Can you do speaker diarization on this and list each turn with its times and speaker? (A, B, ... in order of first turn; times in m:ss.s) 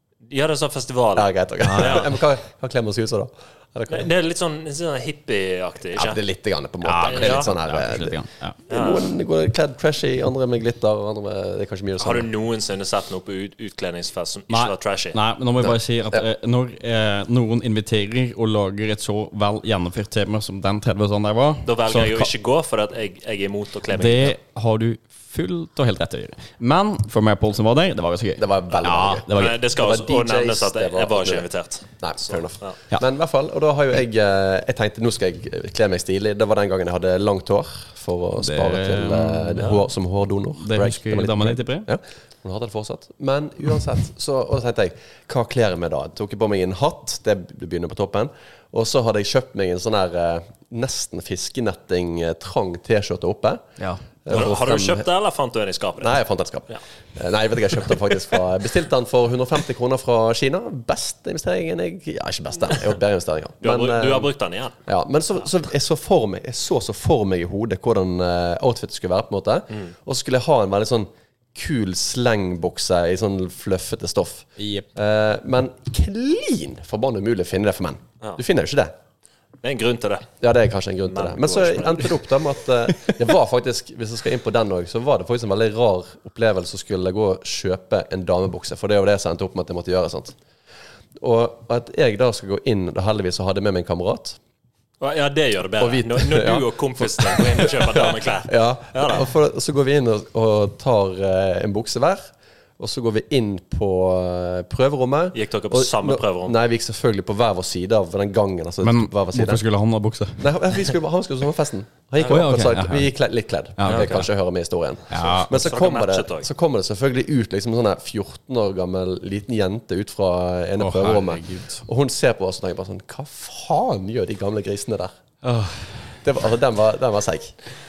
0:00.3-0:02.1 A
0:01.2-0:04.1 B
0:01.6-0:02.1 C
0:03.9-0:06.2 A
0:06.0-0:12.3 B
0:06.8-0:08.6 C
0:07.0-0:07.5 A
0:08.7-0:09.1 A
0:12.0-0:15.2 A
0:14.5-0:22.3 C
0:15.6-0:16.2 B
0:21.6-0:24.4 A
0:23.9-0:29.6 C
0:28.4-0:31.5 B
0:29.3-0:32.8 A
0:32.0-0:53.6 B
0:38.4-0:39.8 C
0:40.6-0:41.9 C
0:54.2-0:55.1 B
0:54.3-0:56.2 A
0:56.0-1:04.3 B
1:03.6-1:04.8 A
1:04.9-1:18.9 B
1:14.6-1:14.9 C
1:19.6-1:20.3 A
1:20.4-1:30.4 B
1:21.1-1:22.2 A
1:31.2-1:34.4 B
1:35.0-1:39.3 A
1:35.8-1:49.6 B
1:45.3-1:46.6 A
1:48.8-1:50.4 C
1:50.4-2:05.1 B
1:52.2-1:53.1 C
1:53.8-1:54.2 C
1:53.9-1:54.3 A
1:55.1-1:55.5 C
1:55.2-1:56.5 A
2:00.8-2:01.8 C
2:05.4-2:05.9 C
2:06.2-2:07.6 B